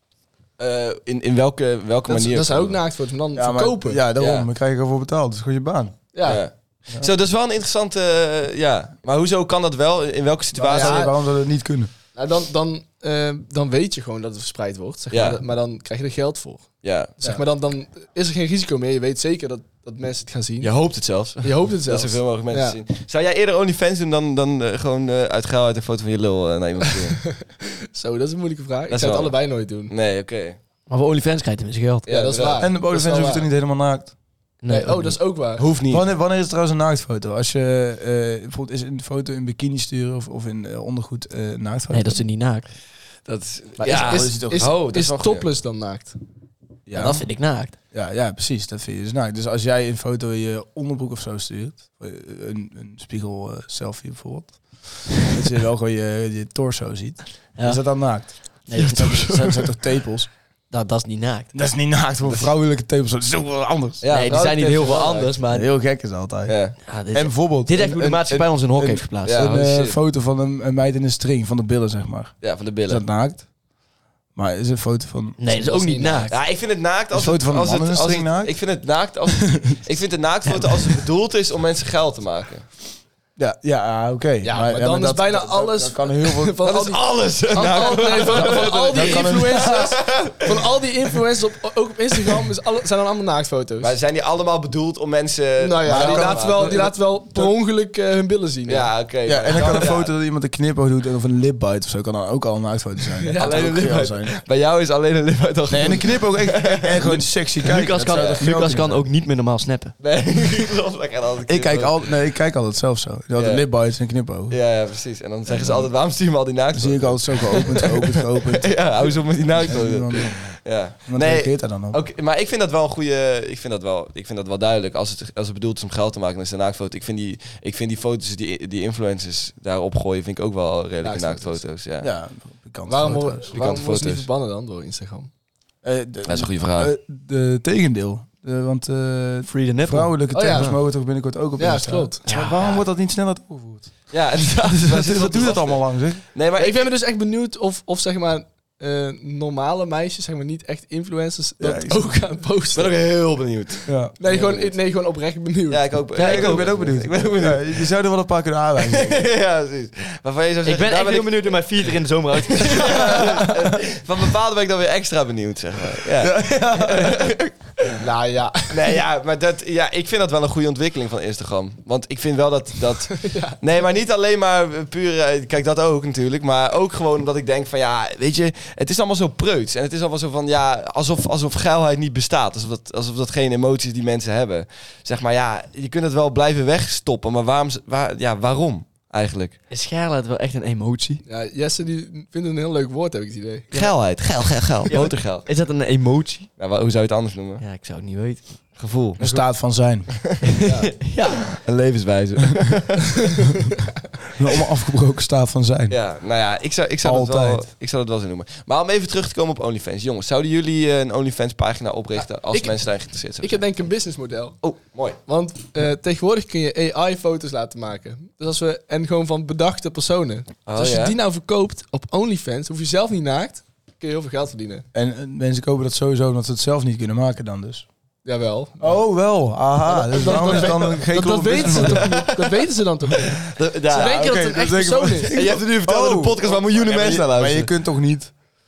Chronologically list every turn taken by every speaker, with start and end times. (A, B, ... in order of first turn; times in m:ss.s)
0:00.6-0:02.8 A
0:02.1-0:04.0 B
0:03.3-0:06.4 C
0:04.1-0:04.5 A
0:06.1-0:06.4 B
0:06.2-0:11.0 A
0:10.6-0:11.9 C
0:10.7-0:11.1 B
0:12.1-0:20.8 B
0:15.1-0:15.4 A
0:16.8-0:17.2 A
0:20.6-0:27.2 A
0:21.4-0:22.8 B
0:27.2-0:29.9 B
0:28.9-0:30.6 A
0:30.9-0:32.1 D
0:32.1-0:32.7 A
0:32.1-0:33.5 B
0:32.6-0:34.1 C
0:34.6-0:35.3 D
0:34.7-0:35.7 B
0:35.6-0:36.0 A
0:35.8-0:42.2 C
0:41.9-0:42.7 D
0:43.2-0:45.5 A
0:43.8-0:44.8 C
0:43.8-0:46.2 B
0:46.9-0:47.3 C
0:46.9-0:47.8 D
0:47.9-1:00.3 C
0:57.6-0:59.7 D
1:00.7-1:01.5 D
1:01.5-1:04.0 C
1:02.2-1:02.5 A
1:04.0-1:05.3 A
1:04.1-1:05.7 D
1:05.5-1:13.4 C
1:06.4-1:06.8 A
1:06.9-1:09.4 D
1:09.2-1:10.0 A
1:12.4-1:13.0 A
1:14.3-1:15.4 C
1:15.4-1:16.3 D
1:15.5-1:16.3 B
1:16.3-1:22.7 A
1:17.1-1:19.8 C
1:20.4-1:21.0 D
1:23.4-1:26.5 C
1:24.4-1:34.0 B
1:26.6-1:30.6 A
1:28.3-1:30.0 C
1:33.8-1:37.5 A
1:35.6-1:39.9 B
1:35.9-1:36.8 C
1:38.6-1:40.1 A
1:39.2-1:44.4 C
1:43.2-1:43.8 B
1:43.4-1:47.3 A
1:45.7-1:49.0 C
1:47.6-1:49.9 D
1:47.8-1:48.4 A
1:50.0-1:52.0 A
1:51.5-1:54.6 C
1:53.4-1:53.7 A
1:54.5-2:12.1 A
1:55.5-1:55.9 C
1:56.7-2:02.0 C
2:11.0-2:11.6 B
2:12.0-2:13.5 C
2:12.9-2:15.3 B
2:13.5-2:14.3 A
2:15.8-2:26.2 C
2:16.2-2:16.9 A
2:19.5-2:20.7 D
2:20.3-2:21.0 B
2:21.6-2:22.4 B
2:22.2-2:22.8 D
2:24.1-2:26.9 A
2:26.6-2:33.0 B
2:31.6-2:32.3 C
2:32.7-2:34.8 A
2:33.9-2:34.1 C
2:34.1-2:36.0 B
2:35.7-2:37.8 A
2:36.1-2:36.9 D
2:36.2-2:39.3 C
2:38.8-2:41.5 A
2:40.6-2:43.2 D
2:42.4-2:48.0 A
2:42.8-2:43.7 C
2:46.1-2:47.4 C
2:47.9-2:49.0 B
2:48.7-3:09.6 A
2:53.1-2:53.6 B
3:09.7-3:11.2 D
3:11.2-3:13.7 B
3:13.7-3:15.5 A
3:14.9-3:16.5 D
3:16.6-3:17.6 A
3:17.6-3:18.4 D
3:18.8-3:19.2 A
3:19.2-3:20.3 C
3:20.4-3:21.6 D
3:20.6-3:20.9 B
3:21.6-3:23.2 A
3:24.3-3:26.0 C
3:25.9-3:33.6 A
3:27.0-3:27.7 C
3:32.2-3:34.6 B
3:34.6-3:35.2 A
3:35.2-3:44.8 B
3:40.6-3:41.2 A
3:44.9-3:47.9 C
3:48.2-3:49.0 B
3:48.8-3:52.2 C
3:49.8-3:55.4 B
3:50.2-3:50.6 A
3:51.6-3:52.6 A
3:53.4-3:54.2 A
3:53.9-3:58.3 C
3:55.3-3:57.7 A